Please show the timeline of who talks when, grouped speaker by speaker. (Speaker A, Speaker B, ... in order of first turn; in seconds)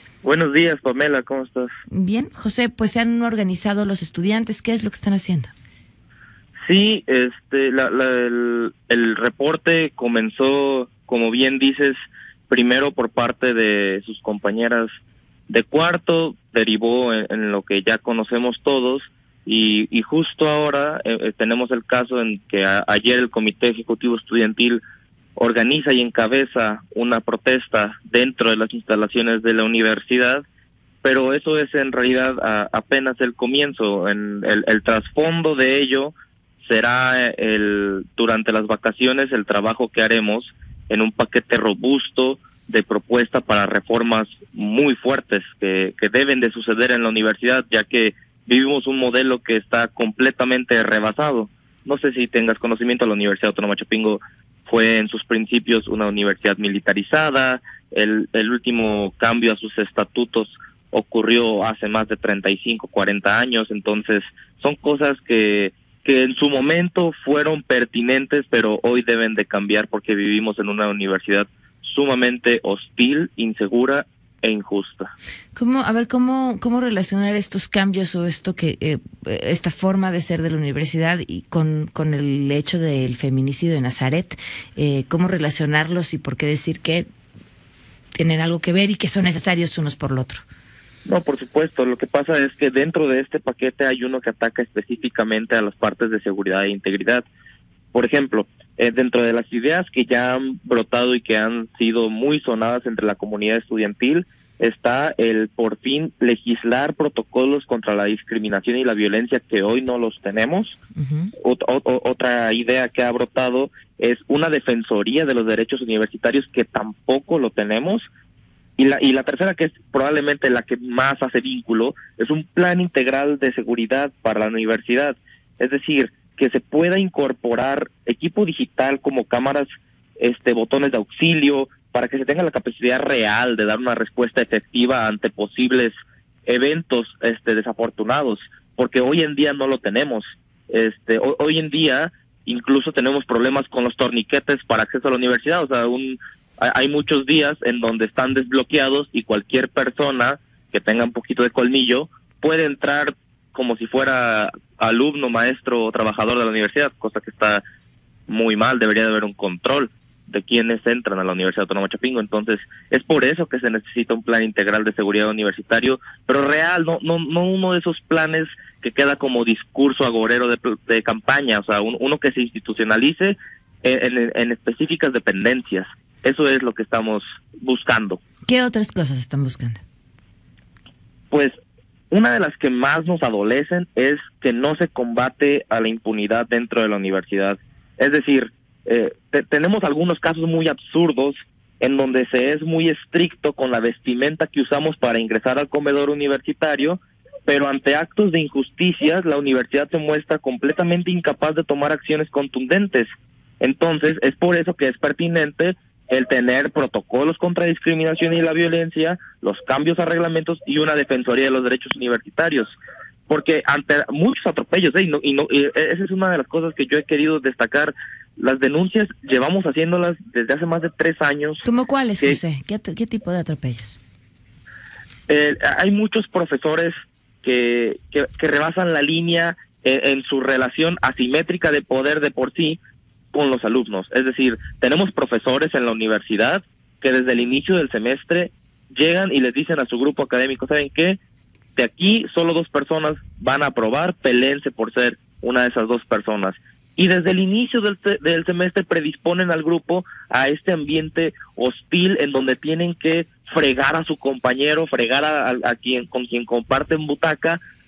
Speaker A: 0.2-1.7, 6.6-11.9, 12.5-14.9, 15.5-24.8, 25.4-30.4, 31.0-75.1, 91.0-97.2, 97.9-110.8, 111.4-118.1, 118.8-129.7, 130.2-135.9, 136.4-157.6, 158.3-178.2, 182.1-203.1, 203.6-212.7, 213.3-221.6, 225.3-232.8, 233.3-241.2, 241.8-257.6
Speaker B: 1.9-5.5, 75.5-87.1, 88.1-90.4, 111.0-111.3, 178.5-179.8, 221.6-224.0